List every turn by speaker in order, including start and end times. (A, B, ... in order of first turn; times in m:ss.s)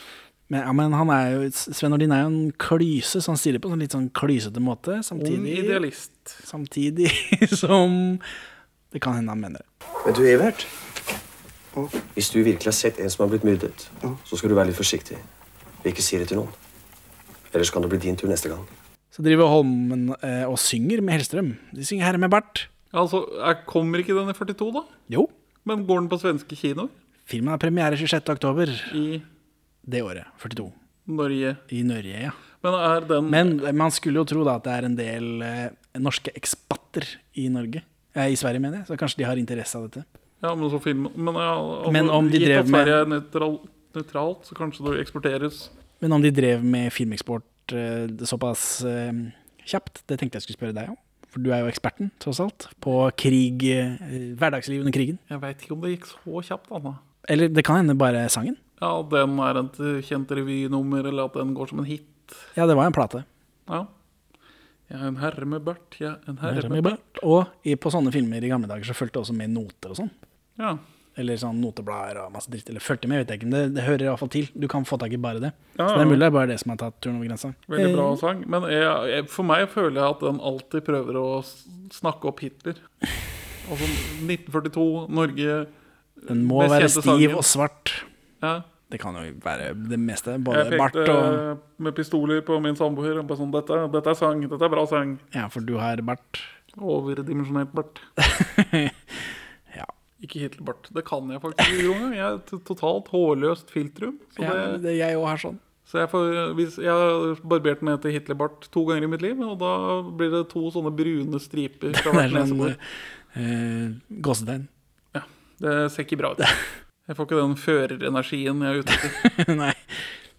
0:00.5-0:05.8 A
0:05.2-0:06.4 B
0:06.4-0:08.2 A
0:08.9-0:09.6 A
0:10.0-0:10.7 C
0:11.9-0:15.2 C
0:15.8-0:16.5 C
0:17.5-0:18.7 C
0:19.1-0:22.7 A
0:22.9-0:24.9 B
0:25.6-0:26.9 B
0:27.3-0:29.0 A
0:28.9-0:29.2 B
0:29.8-0:30.7 A
0:31.0-0:31.6 B
0:31.7-0:32.4 A
0:32.6-0:33.6 B
0:33.3-0:40.0 A
0:40.4-0:45.7 B
0:41.8-0:43.0 A
0:46.0-0:55.2 A
0:55.3-0:57.0 B
0:57.2-0:58.6 A
0:58.8-1:02.5 B
1:02.5-1:03.2 A
1:04.9-1:07.2 B
1:06.4-1:10.1 A
1:10.6-1:10.8 B
1:11.2-1:18.2 A
1:15.7-1:16.2 B
1:17.7-1:22.8 B
1:23.6-1:27.5 B
1:26.3-1:28.0 A
1:28.4-1:28.6 B
1:28.9-1:31.4 A
1:30.5-1:35.2 B
1:35.3-1:36.5 A
1:36.8-1:38.0 B
1:38.2-1:39.0 A
1:40.2-1:44.8 B
1:44.4-1:45.6 A
1:45.8-1:52.8 B
1:51.9-1:52.8 A
1:53.3-1:54.7 A
1:55.1-1:56.5 B
1:57.0-1:59.2 B
1:58.9-1:59.9 A